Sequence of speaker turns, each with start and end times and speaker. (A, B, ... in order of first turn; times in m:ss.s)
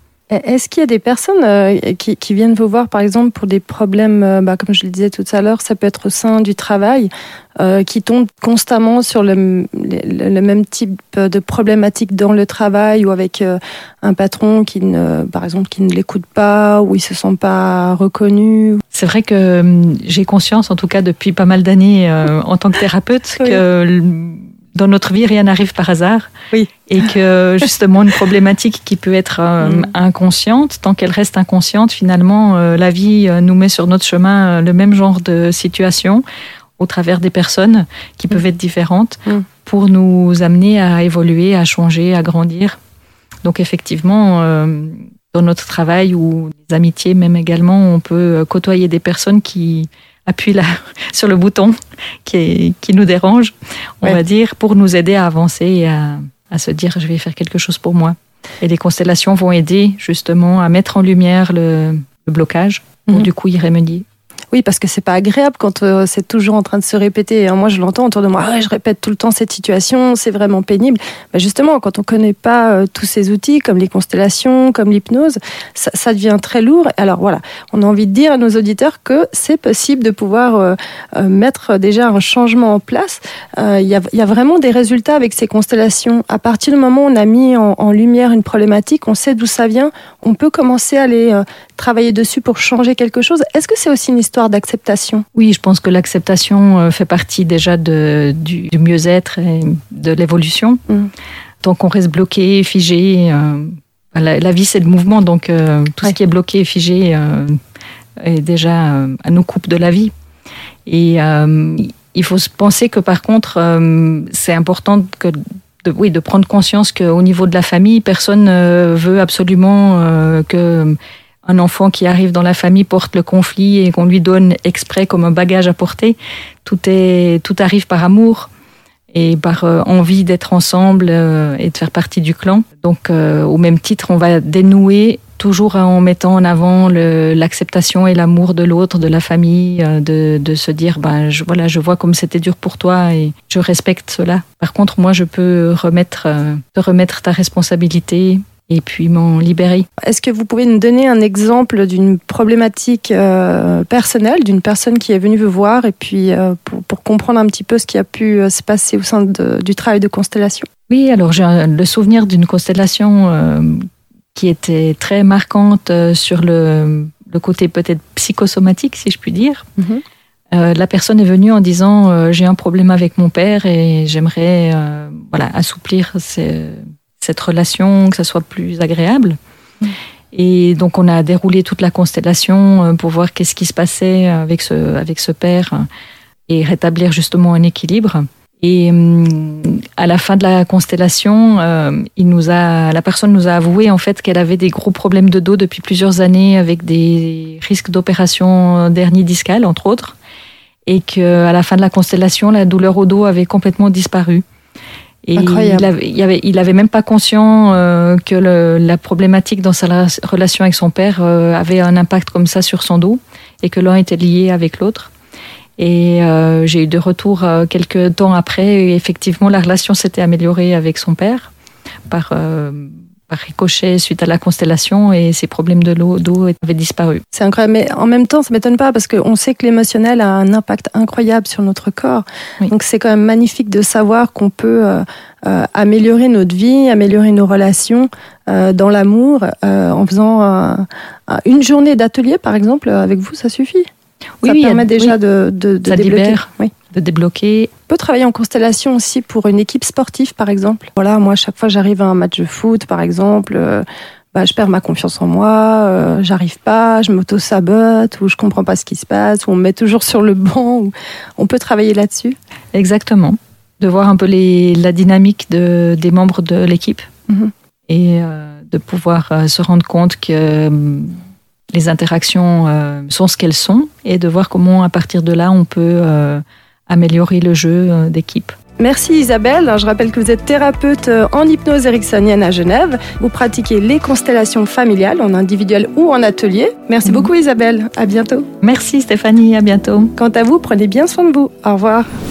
0:00.3-0:18.8 A
0:18.9-0:26.3 B
0:26.8-0:36.2 B
0:29.6-0:29.9 A
0:36.8-0:42.8 B
0:43.4-0:51.7 B
0:52.2-1:04.0 B
1:04.5-1:35.2 A
1:35.4-1:40.8 B
1:41.6-1:47.6 B
1:48.2-1:50.1 B
1:50.9-2:08.5 B
2:09.1-2:29.9 B
2:30.0-2:40.7 A
2:40.9-2:49.6 B
2:49.8-2:50.0 A
2:50.5-2:59.4 B
3:00.3-3:05.8 B
3:06.5-3:20.2 B
3:20.9-3:24.4 B
3:25.3-3:35.1 B
3:25.4-3:25.9 A
3:35.8-3:41.5 B
3:42.1-3:47.2 B
3:47.3-4:03.9 A
4:04.4-4:05.2 B
4:04.4-4:06.7 A
4:05.8-4:07.7 B
4:07.9-4:22.4 A
4:22.7-4:27.1 B
4:27.9-4:31.2 B
4:31.7-4:38.5 B
4:38.8-4:48.5 A
4:47.0-4:47.3 B
4:48.6-4:50.1 B
4:50.2-4:52.1 A